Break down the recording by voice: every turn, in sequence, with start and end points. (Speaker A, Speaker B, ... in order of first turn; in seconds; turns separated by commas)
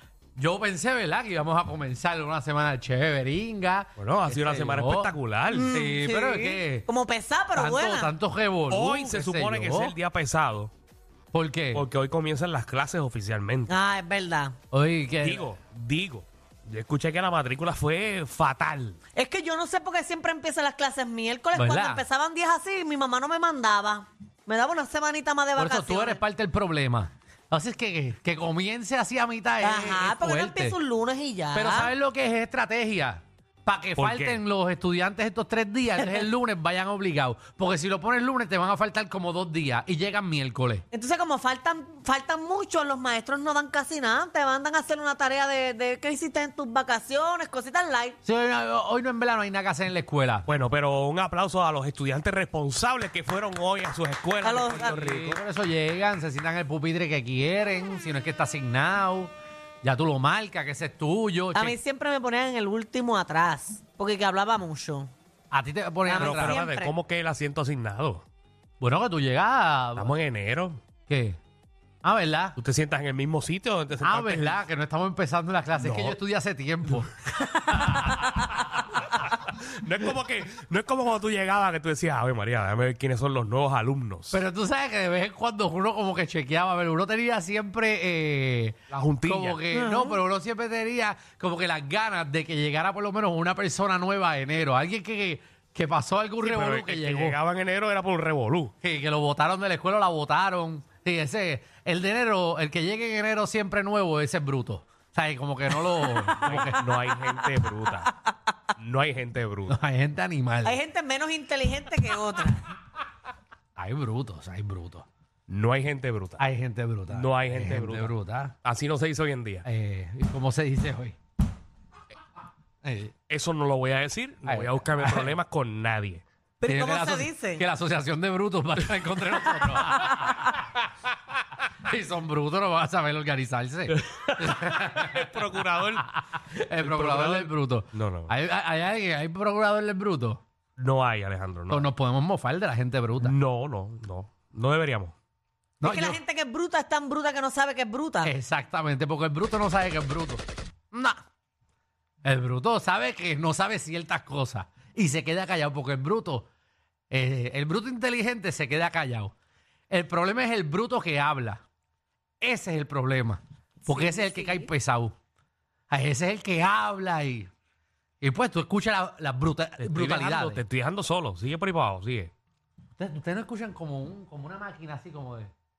Speaker A: 0.3-5.1, Speaker B: 4.0-5.7, Speaker C: 5.5-8.1, Speaker A: 5.7-6.9, Speaker A: 7.5-9.9, Speaker B: 8.7-10.7, Speaker A: 11.3-11.8, Speaker B: 11.7-13.7, Speaker C: 13.7-14.5, Speaker A: 14.7-15.4, Speaker B: 15.2-19.0, Speaker C: 19.1-26.2, Speaker A: 21.5-22.0, Speaker A: 25.6-30.8, Speaker C: 29.6-31.9, Speaker A: 31.5-40.8, Speaker B: 34.0-34.4, Speaker C: 40.9-48.2, Speaker A: 48.2-50.5, Speaker B: 50.5-55.4, Speaker C: 54.4-55.0, Speaker A: 54.5-61.8, Speaker C: 61.5-65.1, Speaker A: 65.5-66.6, Speaker C: 66.0-66.9, Speaker B: 66.1-68.2, Speaker A: 68.8-70.1, Speaker B: 70.0-70.8, Speaker A: 71.1-71.4, Speaker A: 72.0-72.6, Speaker B: 72.6-74.6, Speaker A: 74.0-78.5, Speaker B: 75.8-76.2, Speaker B: 78.1-84.4, Speaker A: 84.3-97.4, Speaker B: 88.9-89.6, Speaker C: 89.7-90.2, Speaker B: 96.4-98.7, Speaker A: 98.8-106.8, Speaker B: 106.4-108.1, Speaker B: 108.8-109.8, Speaker A: 109.7-110.8, Speaker C: 110.6-112.7, Speaker A: 113.8-115.0, Speaker B: 115.5-116.4, Speaker A: 116.4-118.5, Speaker B: 117.1-119.6, Speaker A: 119.6-121.2, Speaker A: 122.8-123.1, Speaker B: 123.3-126.2, Speaker A: 124.4-125.3, Speaker C: 126.6-127.6, Speaker A: 126.6-130.8, Speaker A: 131.8-135.4, Speaker B: 133.9-136.2, Speaker A: 135.9-140.4, Speaker B: 136.8-138.3, Speaker B: 140.8-141.9, Speaker A: 141.7-143.4, Speaker B: 143.2-145.1, Speaker A: 145.8-146.2, Speaker C: 145.8-148.3, Speaker A: 148.2-151.2, Speaker A: 152.2-156.5, Speaker A: 157.1-159.3, Speaker A: 159.9-161.6, Speaker A: 162.4-165.1, Speaker C: 163.9-164.6, Speaker A: 165.9-167.5, Speaker A: 168.2-170.6, Speaker B: 169.8-172.3, Speaker A: 173.0-175.5